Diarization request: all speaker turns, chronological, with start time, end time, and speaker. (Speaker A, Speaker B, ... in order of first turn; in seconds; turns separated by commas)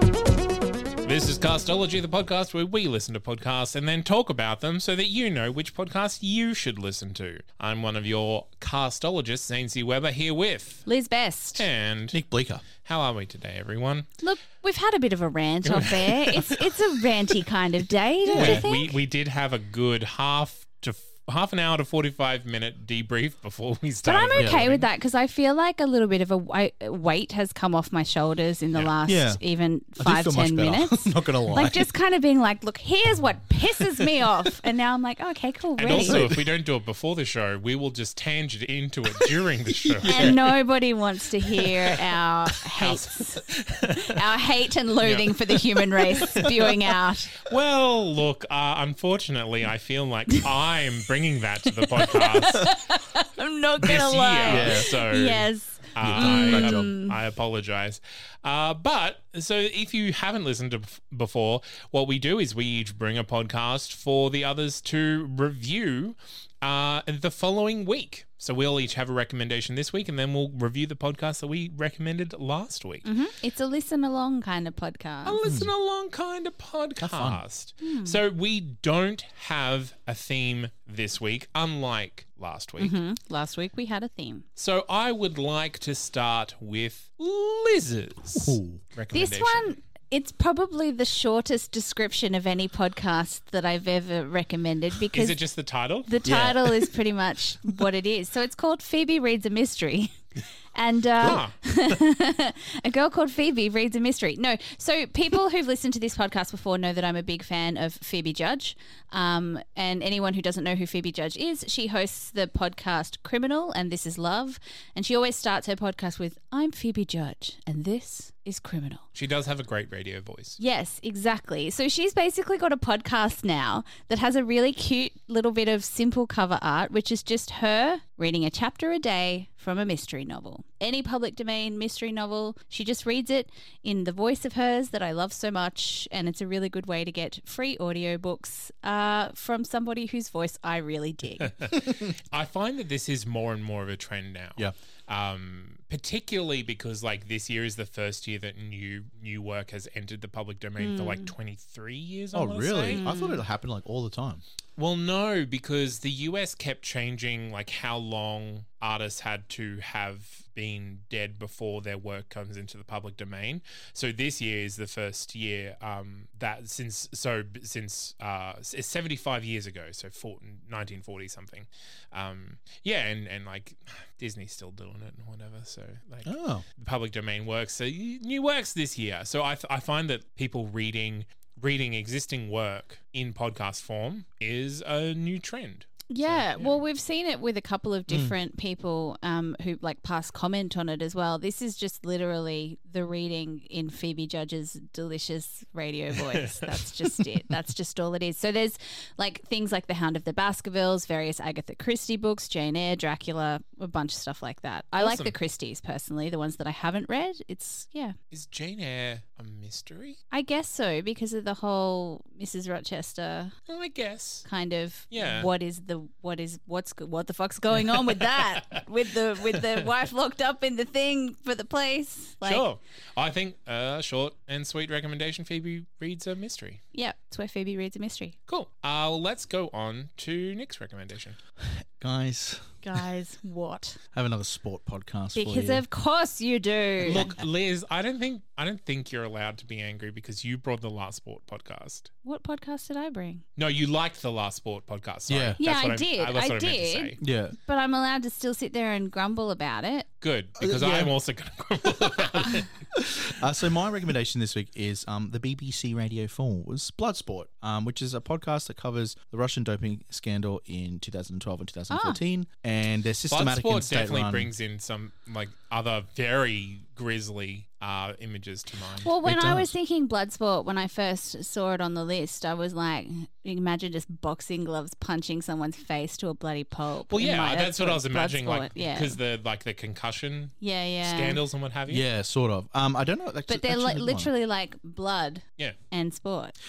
Speaker A: 1.0-10.8, Speaker B: 10.8-11.6, Speaker A: 11.5-12.2, Speaker C: 12.1-12.6, Speaker A: 12.8-14.1, Speaker B: 14.2-18.9, Speaker A: 15.7-16.6, Speaker C: 18.2-18.7, Speaker A: 18.3-24.9, Speaker B: 24.0-36.2, Speaker C: 24.3-24.6, Speaker C: 29.0-29.4, Speaker C: 29.9-31.9, Speaker A: 35.8-40.4, Speaker C: 35.9-36.4, Speaker C: 39.8-40.4, Speaker B: 40.0-43.4, Speaker A: 42.8-44.1, Speaker B: 44.0-47.4, Speaker A: 45.0-46.5, Speaker A: 47.4-52.8, Speaker B: 51.9-57.1, Speaker A: 53.8-73.1, Speaker C: 54.5-54.9, Speaker C: 56.0-56.9, Speaker B: 73.0-75.4, Speaker A: 75.2-83.0, Speaker C: 75.4-75.7, Speaker C: 77.0-77.4, Speaker B: 77.8-78.2, Speaker B: 82.8-84.4, Speaker A: 84.6-89.7, Speaker C: 88.3-88.8, Speaker B: 89.1-95.4, Speaker A: 95.1-96.3, Speaker B: 96.0-100.2, Speaker C: 96.2-96.7, Speaker B: 100.7-119.0, Speaker A: 101.2-101.5, Speaker A: 119.1-120.6, Speaker B: 120.6-141.5, Speaker A: 141.6-153.0, Speaker B: 150.8-151.3, Speaker C: 152.3-154.4, Speaker B: 152.9-153.4, Speaker A: 154.8-186.8, Speaker C: 176.2-176.6, Speaker B: 186.1-208.1, Speaker C: 188.1-188.3, Speaker A: 196.3-196.7, Speaker A: 205.0-205.3, Speaker A: 208.3-210.2, Speaker B: 210.3-213.5, Speaker A: 213.7-214.4, Speaker B: 214.4-222.7, Speaker A: 215.1-215.5, Speaker A: 222.4-226.8, Speaker B: 226.9-228.3, Speaker A: 228.5-231.4, Speaker C: 231.6-233.0, Speaker B: 232.8-234.0, Speaker C: 234.1-235.8, Speaker B: 235.3-237.3, Speaker A: 237.0-242.1, Speaker B: 242.2-243.4, Speaker A: 243.6-247.2, Speaker C: 245.3-245.6, Speaker B: 245.6-247.1, Speaker C: 247.2-247.6, Speaker B: 247.7-250.1, Speaker A: 250.2-252.7, Speaker C: 250.6-251.1, Speaker C: 252.0-264.5, Speaker B: 261.9-262.2, Speaker A: 263.3-269.1, Speaker B: 269.0-279.2, Speaker C: 269.2-269.7, Speaker A: 277.1-282.0, Speaker B: 280.6-281.4, Speaker C: 281.9-284.3, Speaker B: 283.5-286.5